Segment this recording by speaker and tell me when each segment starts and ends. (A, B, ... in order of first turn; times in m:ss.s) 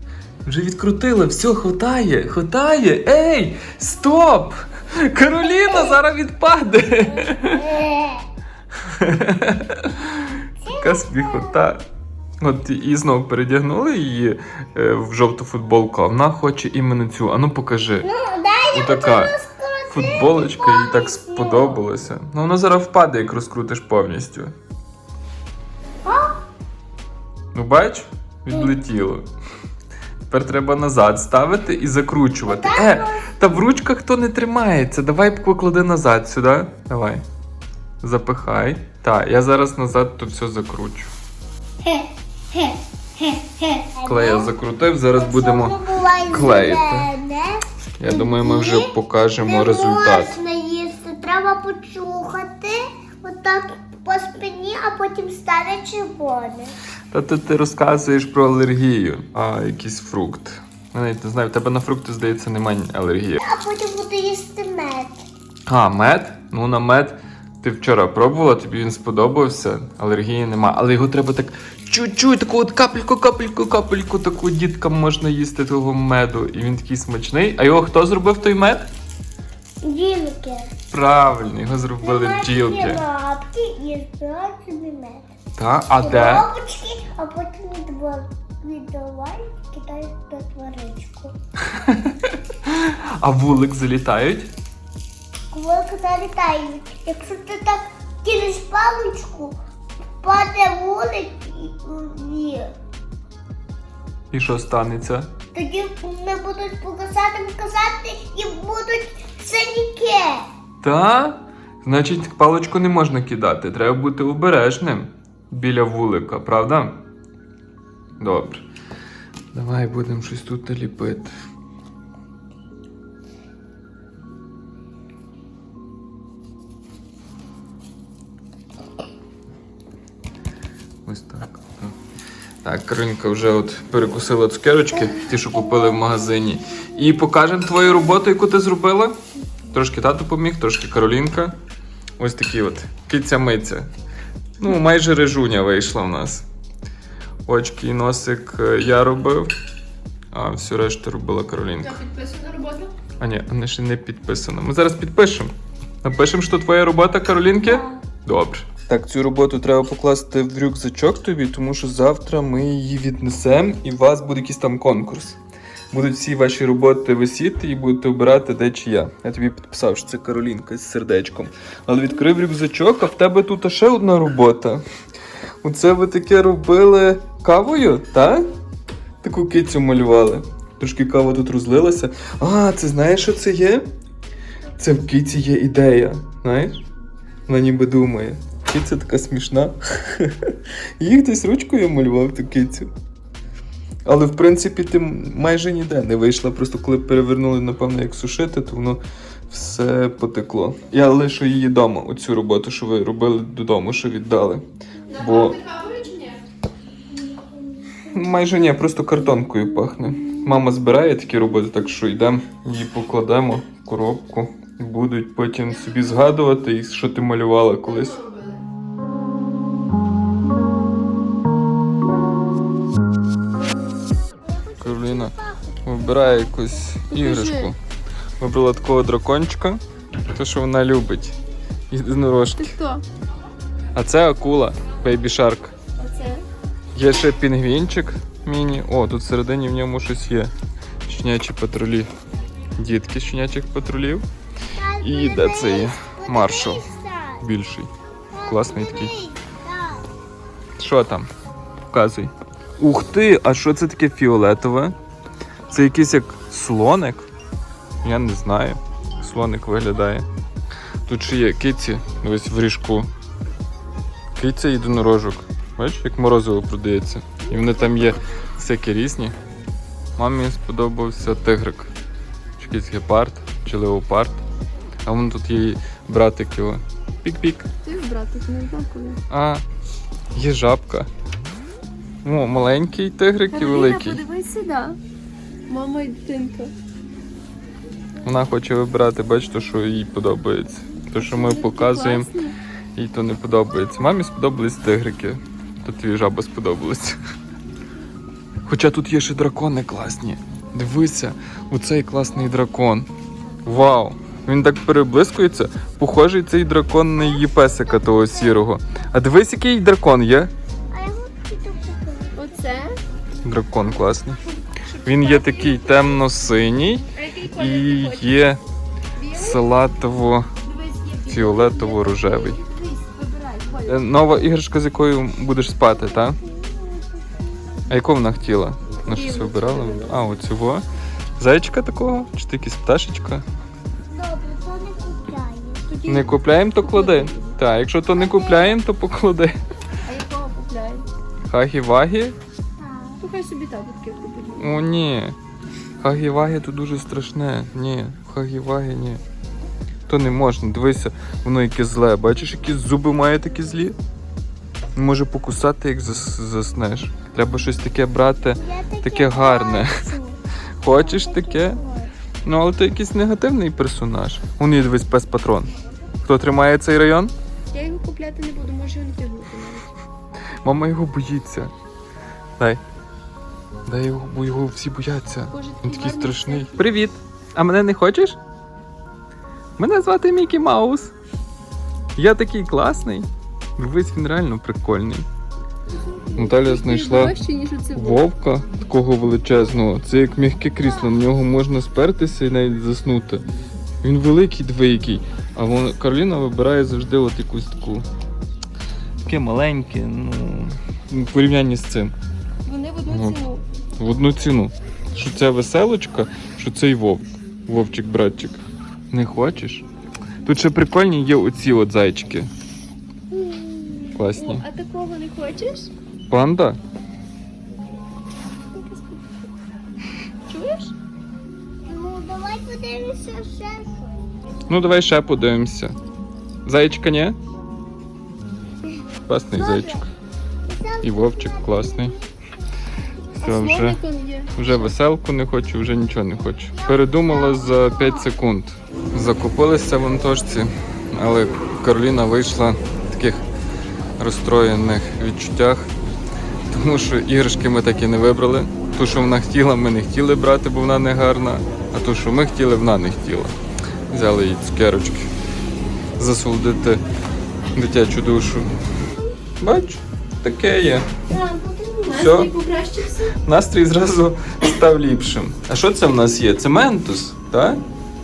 0:00.4-0:07.7 A
0:05.4-0:06.0 B
0:07.3-0:08.2 B
0:08.9-0:11.8 A
0:10.6-0:11.6 B
0:12.4-0:18.1 A
0:18.0-0:21.8 B
0:18.7-0:19.3 A
0:19.9-0:24.5 A
0:26.0-0:26.4 B
0:27.5-0:29.3 A
0:30.3-0:37.2 A
0:32.4-0:33.4 B
0:38.0-0:41.1 A
0:41.8-0:44.5 B
0:44.0-0:47.1 A
0:45.1-0:48.9 B
0:48.0-0:50.4 A
0:49.4-0:56.7 B
0:57.1-1:03.4 A
1:03.4-1:05.2 B
1:05.6-1:18.9 A
1:19.8-1:20.7 B
1:20.9-1:23.0 A
1:22.0-1:25.3 B
1:25.6-1:26.5 A
1:26.0-1:31.3 B
1:31.7-1:34.5 A
1:35.5-1:39.6 B
1:40.2-1:42.7 B
1:44.3-1:45.3 A
1:45.5-1:50.5 B
1:50.8-1:57.0 A
1:58.2-1:58.6 A
1:59.5-2:01.3 A
2:11.0-2:11.9 A
2:12.6-2:19.2 A
2:19.7-2:21.6 A
2:22.2-2:23.9 A
2:24.6-2:26.4 A
2:27.4-2:29.5 A
2:30.3-2:32.0 A
2:31.8-2:32.9 C
2:33.2-2:45.4 A
2:37.6-2:38.0 B
2:45.9-2:54.8 A
2:55.6-2:58.5 A
2:59.2-3:03.8 A
3:04.8-3:06.8 A
3:07.5-3:12.9 A
3:14.0-3:25.6 A
3:25.1-3:26.4 C
3:27.3-3:28.0 B
3:28.1-3:38.2 A
3:37.8-3:38.6 C
3:44.4-3:46.8 B
3:44.8-3:47.8 A
3:47.1-3:47.7 C
3:48.4-3:51.3 A
3:51.9-3:52.8 A
3:52.6-3:53.0 C
3:53.9-3:55.7 A
3:56.0-3:56.4 C
3:56.9-4:00.5 A
4:01.0-4:02.1 A
4:02.8-4:04.2 A
4:04.7-4:07.4 B
4:05.0-4:06.9 A
4:07.4-4:07.9 A
4:08.3-4:10.1 B
4:08.5-4:09.1 A
4:10.8-4:11.3 A
4:11.9-4:14.9 A
4:15.7-4:17.3 A
4:18.0-4:20.2 A
4:21.0-4:23.1 A
4:24.4-4:29.4 A
4:27.5-4:28.4 C
4:30.2-4:31.9 A
4:32.6-4:34.4 A
4:35.0-4:37.7 A
4:37.8-4:39.2 C
4:39.3-4:39.6 A
4:40.3-4:41.1 A
4:42.2-4:44.2 A
4:43.5-4:45.0 C
4:45.7-4:46.7 C
4:48.2-4:52.3 A
4:51.2-4:52.6 C
4:53.0-4:57.2 A
4:58.6-5:03.1 A
5:03.6-5:10.5 A
5:07.1-5:08.7 B
5:10.9-5:12.7 B
5:12.3-5:13.0 C
5:13.4-5:14.4 A
5:14.7-5:16.2 C
5:15.0-5:18.6 A
5:17.1-5:18.3 C
5:19.2-5:19.8 C
5:19.3-5:20.5 A
5:20.6-5:24.2 C
5:21.2-5:22.6 A
5:23.8-5:26.4 A
5:25.8-5:27.9 B
5:27.9-5:30.8 A
5:29.1-5:30.2 C
5:31.4-5:33.4 A
5:34.1-5:35.9 B
5:35.9-5:37.6 C
5:36.1-5:39.6 A
5:38.0-5:38.8 B
5:40.0-5:41.1 C
5:41.5-5:42.4 A
5:42.8-5:43.2 B
5:43.2-5:44.8 C
5:44.6-5:45.4 A
5:46.0-5:49.2 A
5:50.1-5:54.0 A
5:54.9-6:00.0 A
5:58.6-6:02.1 B
6:00.8-6:01.8 A
6:02.4-6:05.7 A
6:06.2-6:07.3 A
6:07.7-6:09.9 C
6:10.6-6:11.7 A
6:13.8-6:18.4 A
6:15.5-6:17.0 C
6:19.8-6:21.1 A
6:22.2-6:25.2 A
6:25.9-6:28.3 C
6:26.4-6:27.3 A
6:27.9-6:33.4 A
6:34.0-6:38.0 A
6:39.2-6:42.1 A
6:42.6-6:43.6 C
6:43.0-6:43.4 A
6:44.0-6:49.8 A
6:50.4-6:52.5 A
6:53.4-6:54.2 B
6:54.1-6:55.9 C
6:54.2-6:54.6 A
6:56.3-6:56.8 A
6:58.7-6:59.5 C
7:00.5-7:00.9 C
7:01.8-7:04.3 B
7:04.7-7:06.0 A
7:06.6-7:07.4 A
7:09.3-7:10.1 A
7:09.5-7:10.0 B
7:10.6-7:12.3 B
7:11.0-7:12.1 A
7:13.4-7:14.0 A
7:13.4-7:14.5 C
7:14.5-7:23.4 A
7:16.7-7:18.3 B
7:24.2-7:25.9 A
7:26.7-7:33.5 A
7:34.1-7:35.3 A
7:36.2-7:37.0 A
7:37.7-7:38.7 A
7:39.6-7:41.1 A
7:41.3-7:43.3 C
7:42.1-7:42.5 A
7:43.4-7:47.8 A